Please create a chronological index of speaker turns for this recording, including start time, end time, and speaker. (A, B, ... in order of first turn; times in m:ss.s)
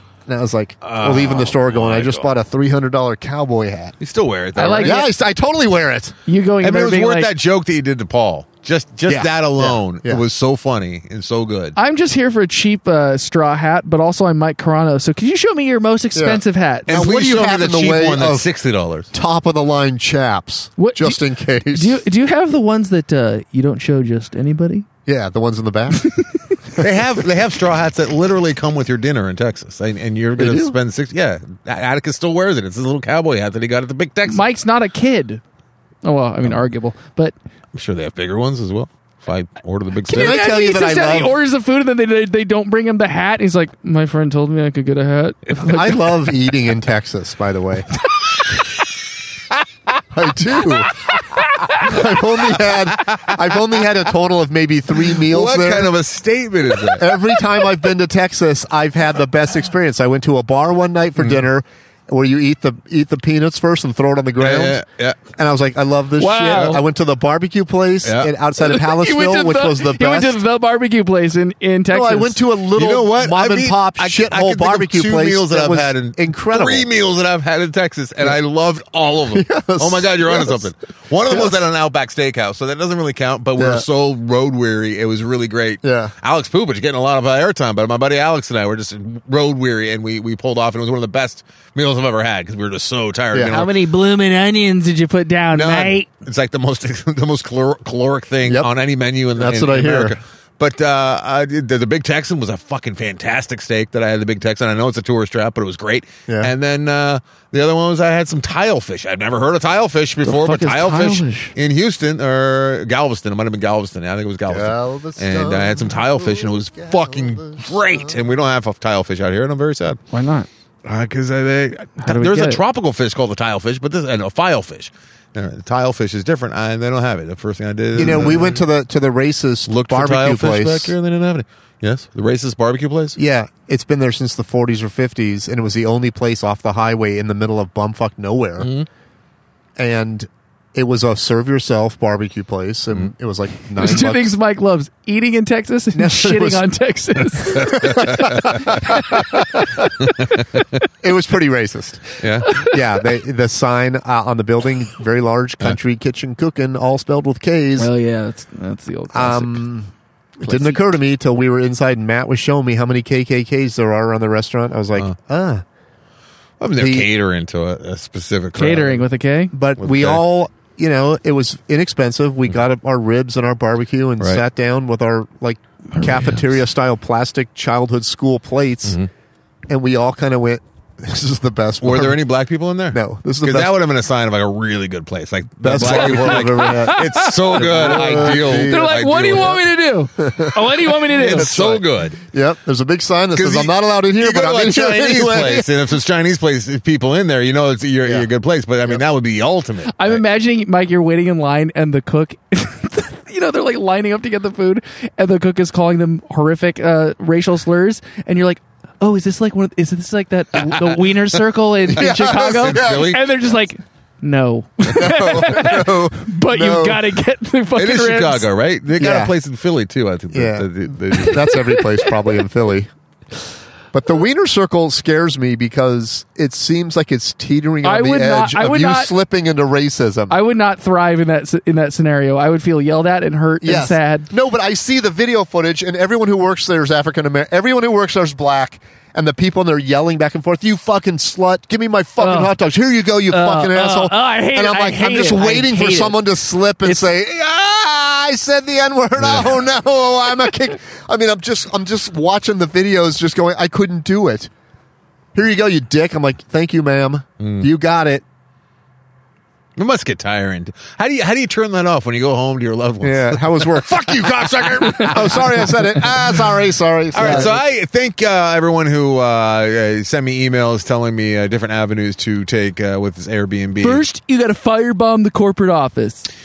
0:00.3-0:04.0 A
0:00.8-0:02.3 B
0:04.0-0:05.0 B
0:04.6-0:05.0 C
0:04.8-0:06.2 A
0:06.3-0:07.3 C
0:06.6-0:11.8 B
0:09.1-0:10.2 A
0:11.8-0:17.1 C
0:16.1-0:18.5 A
0:16.9-0:19.1 B
0:19.1-0:22.0 A
0:20.8-0:24.9 C
0:25.1-0:26.0 A
0:25.9-0:26.4 C
0:26.8-0:34.5 B
0:30.4-0:30.8 A
0:34.3-0:35.4 C
0:36.0-0:37.3 C
0:37.7-0:40.4 B
0:40.1-0:46.0 C
0:40.1-0:41.4 A
0:45.6-0:47.9 A
0:50.1-0:51.0 A
0:51.8-0:55.9 A
0:52.9-0:53.4 B
0:55.1-0:57.2 B
0:56.9-1:04.8 A
1:04.4-1:05.2 B
1:05.4-1:10.4 A
1:06.2-1:06.8 C
1:06.5-1:06.8 B
1:08.0-1:08.3 B
1:08.6-1:12.4 C
1:11.9-1:16.9 A
1:12.8-1:33.7 B
1:19.3-1:20.7 A
1:21.3-1:21.6 A
1:23.6-1:23.9 A
1:25.8-1:26.1 A
1:33.3-1:33.6 A
1:33.4-1:36.1 C
1:35.5-2:00.0 B
1:39.4-1:40.2 A
1:46.3-1:46.5 A
1:50.2-1:51.5 C
1:54.5-1:58.2 A
2:00.1-2:00.5 C
2:00.8-2:08.6 B
2:02.0-2:02.6 C
2:08.0-2:11.0 A
2:09.7-2:13.2 B
2:13.2-2:18.7 A
2:18.6-2:18.9 B
2:19.8-2:24.4 A
2:23.8-2:29.9 C
2:25.9-2:26.7 A
2:27.4-2:28.8 B
2:27.6-2:29.8 A
2:30.0-2:30.4 B
2:31.0-2:37.9 A
2:32.2-2:32.7 B
2:32.4-2:32.8 C
2:37.8-2:39.6 C
2:39.1-2:45.6 A
2:40.4-2:40.9 C
2:46.6-2:49.0 B
2:46.8-2:47.1 A
2:48.6-2:49.5 C
2:49.5-2:59.0 A
2:49.8-2:50.2 B
2:59.7-3:02.2 A
3:01.8-3:09.6 B
3:02.9-3:03.7 A
3:05.6-3:08.9 A
3:05.8-3:11.5 C
3:10.2-3:15.7 A
3:11.0-3:12.2 B
3:13.4-3:20.2 B
3:19.9-3:38.5 C
3:30.6-3:31.1 B
3:31.9-3:33.2 A
3:32.0-3:33.3 B
3:34.9-3:37.1 A
3:37.8-3:41.5 B
3:39.0-3:39.3 A
3:40.3-3:42.9 A
3:41.3-3:42.4 C
3:43.9-3:50.4 A
3:47.8-3:49.1 C
3:50.3-3:54.3 C
3:53.6-4:14.5 A
4:02.2-4:02.6 C
4:03.3-4:06.2 C
4:09.2-4:09.5 B
4:15.3-4:18.2 A
4:17.4-4:17.7 B
4:19.8-4:26.4 B
4:23.0-4:27.6 A
4:24.9-4:25.1 C
4:27.1-4:34.0 B
4:33.8-4:36.3 C